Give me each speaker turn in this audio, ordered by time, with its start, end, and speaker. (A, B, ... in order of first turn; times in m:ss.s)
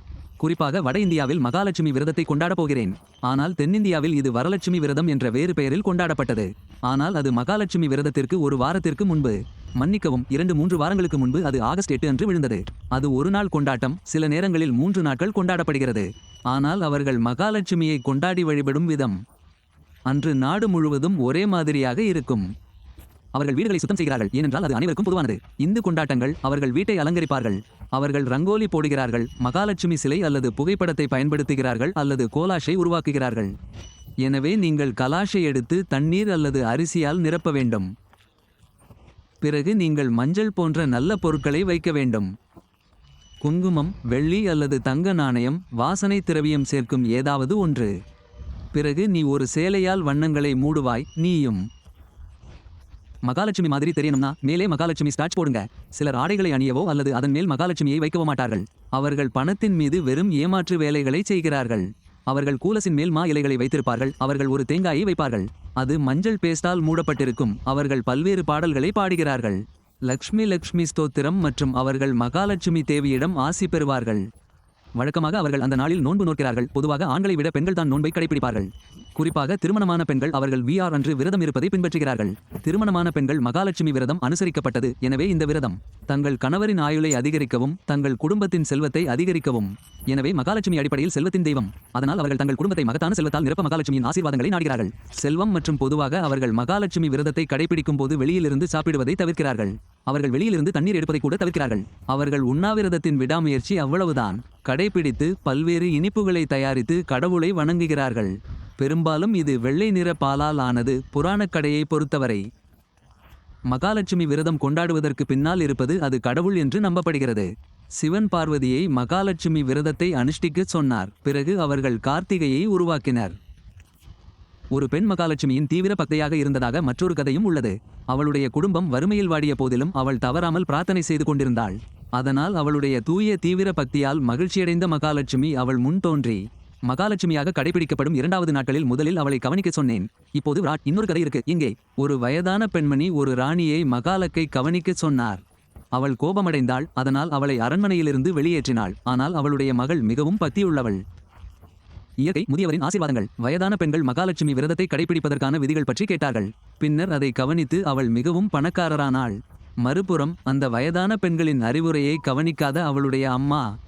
0:00.4-0:19.2 A
0:20.1-0:22.5 A
0:23.3-0:33.5 A
0:34.2-0:37.9 A
0:39.4-0:42.3 A
0:43.4-0:47.9 A
0:48.7-0:51.7 A
0:53.2-1:14.3 A
1:15.0-1:52.5 A
1:53.7-2:03.4 A
2:04.7-2:25.4 A
2:25.9-2:31.0 A
2:32.2-2:43.7 A